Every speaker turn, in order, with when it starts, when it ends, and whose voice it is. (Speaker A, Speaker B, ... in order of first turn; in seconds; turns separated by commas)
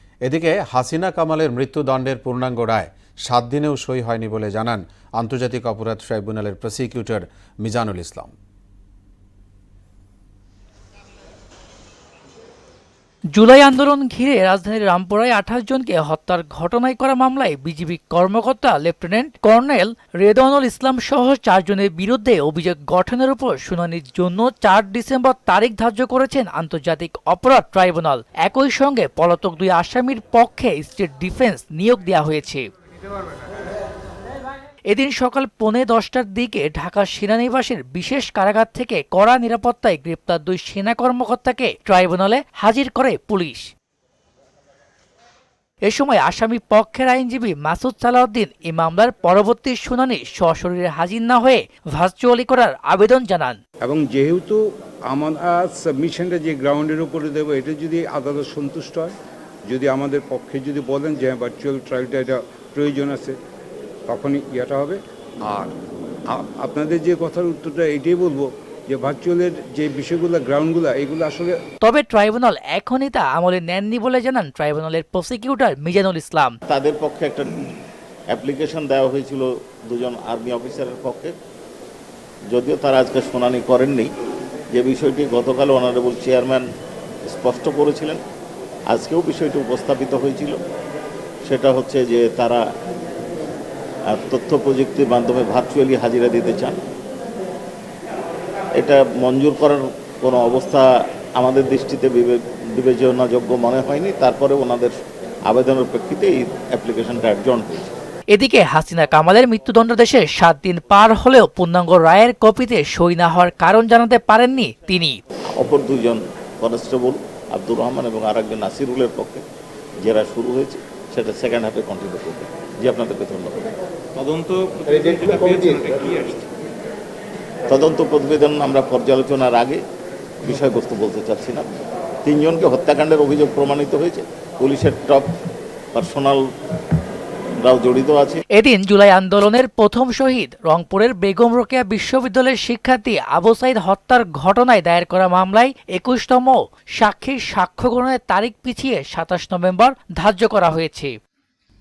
Speaker A: 0.2-8.3, Speaker B: 13.3-32.7, Speaker B: 34.9-43.7, Speaker B: 45.9-53.6, Speaker C: 53.8-59.1, Speaker C: 59.7-63.4, Speaker C: 64.1-65.8, Speaker C: 66.3-71.6, Speaker B: 71.8-76.6, Speaker D: 76.7-77.7, Speaker D: 78.3-81.3, Speaker D: 82.5-84.1, Speaker D: 84.7-86.7, Speaker D: 87.3-88.2, Speaker D: 88.9-90.6, Speaker D: 91.5-92.6, Speaker D: 94.1-96.8, Speaker D: 98.8-100.9, Speaker D: 101.4-104.9, Speaker D: 105.5-107.9, Speaker B: 108.3-115.2, Speaker D: 115.5-119.4, Speaker D: 120.0-123.6, Speaker E: 124.2-126.5, Speaker D: 127.7-129.8, Speaker D: 130.4-131.7, Speaker D: 132.2-135.3, Speaker D: 135.9-136.4, Speaker D: 137.6-138.4, Speaker B: 138.5-151.2